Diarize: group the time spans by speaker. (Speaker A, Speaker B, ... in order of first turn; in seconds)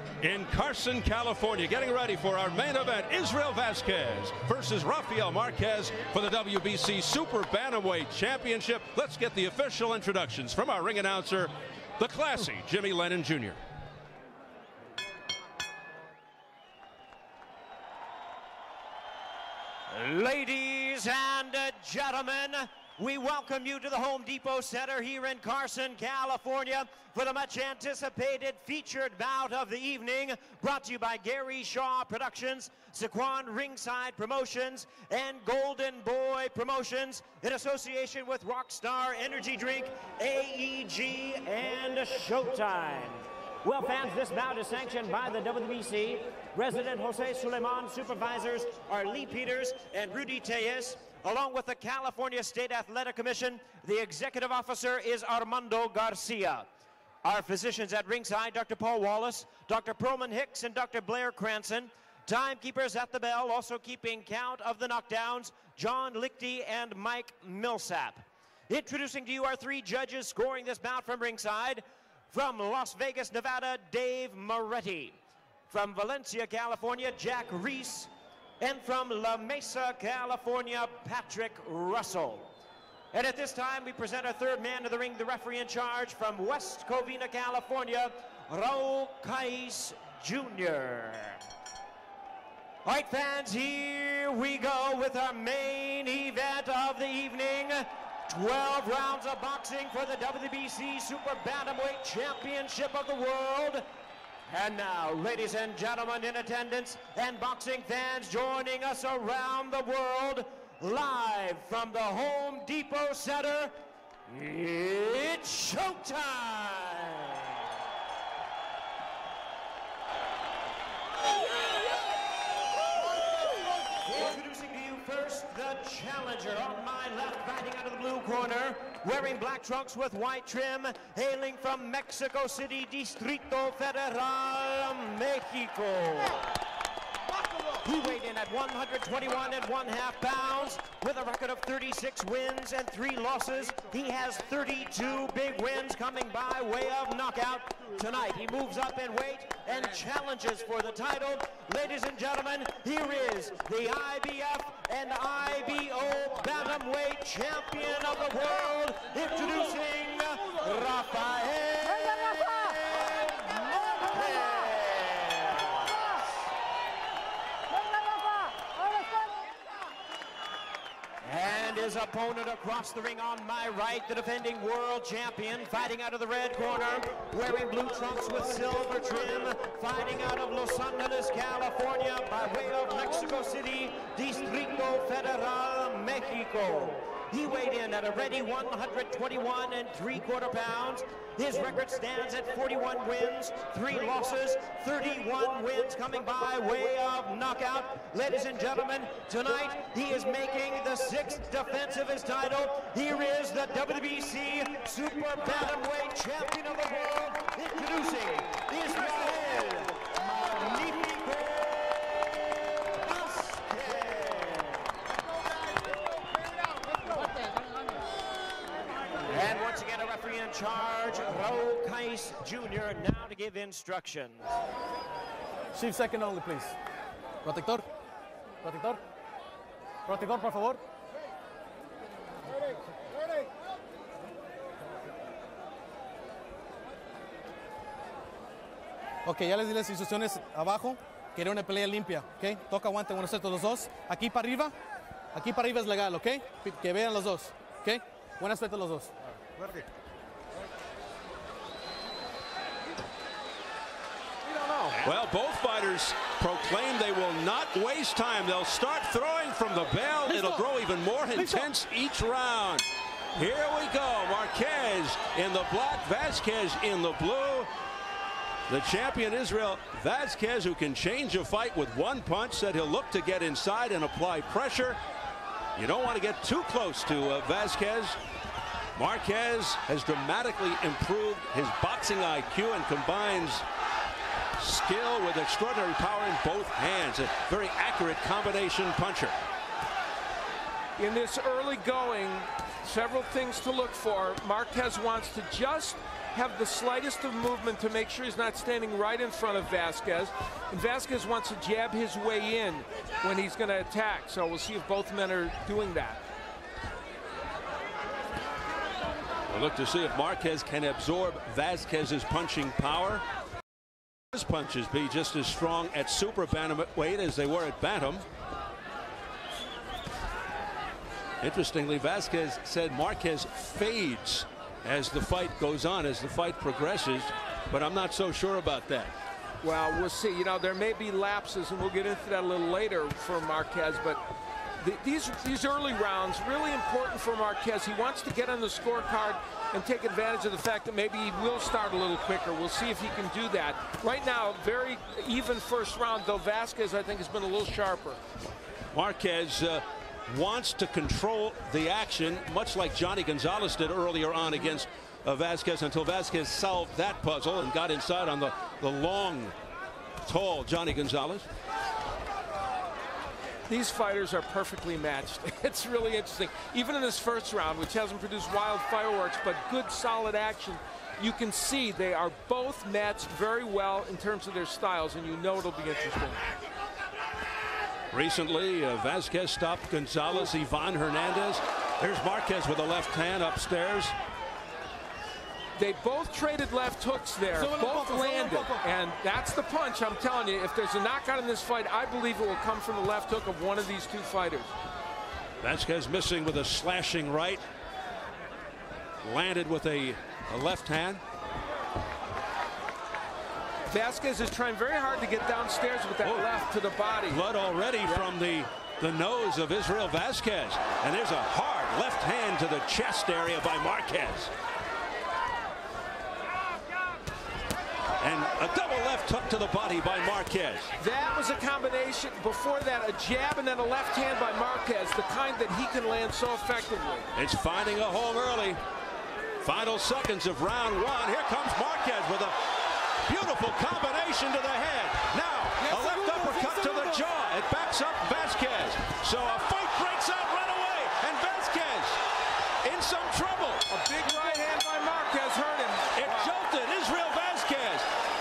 Speaker A: 0.2-13.6, 255.0-262.9, 263.4-267.7, 268.7-275.0, 275.8-278.2, 278.9-283.6, 284.6-289.4, 309.5-313.2, 314.3-318.2, 321.4-329.1, 348.9-359.6, 360.2-361.5, 378.1-384.1, 395.6-397.6, 399.2-401.2, 406.2-406.5, 407.3-414.5, 418.2-420.9, 427.4-428.8, 429.6-432.5, 433.3-442.2, 442.8-443.9, 446.1-448.1
Speaker B: 19.9-56.7, 57.2-75.2, 75.7-82.5, 83.1-91.4, 92.8-103.9, 104.5-113.8, 114.3-117.4, 124.0-136.5, 137.8-165.8, 171.2-212.4, 212.9-214.9, 219.2-224.5
Speaker C: 225.7-226.8, 227.4-227.9, 228.6-229.0, 230.1-230.8, 239.2-244.8, 245.3-249.8, 260.3-260.7, 261.4-261.7, 387.6-388.9, 435.8-437.3, 444.4-444.6
Speaker D: 254.4-255.0, 291.0-306.2, 329.6-334.2, 334.8-348.2, 363.7-376.5, 385.8-394.7, 403.9-407.4, 421.0-427.3, 443.9-446.6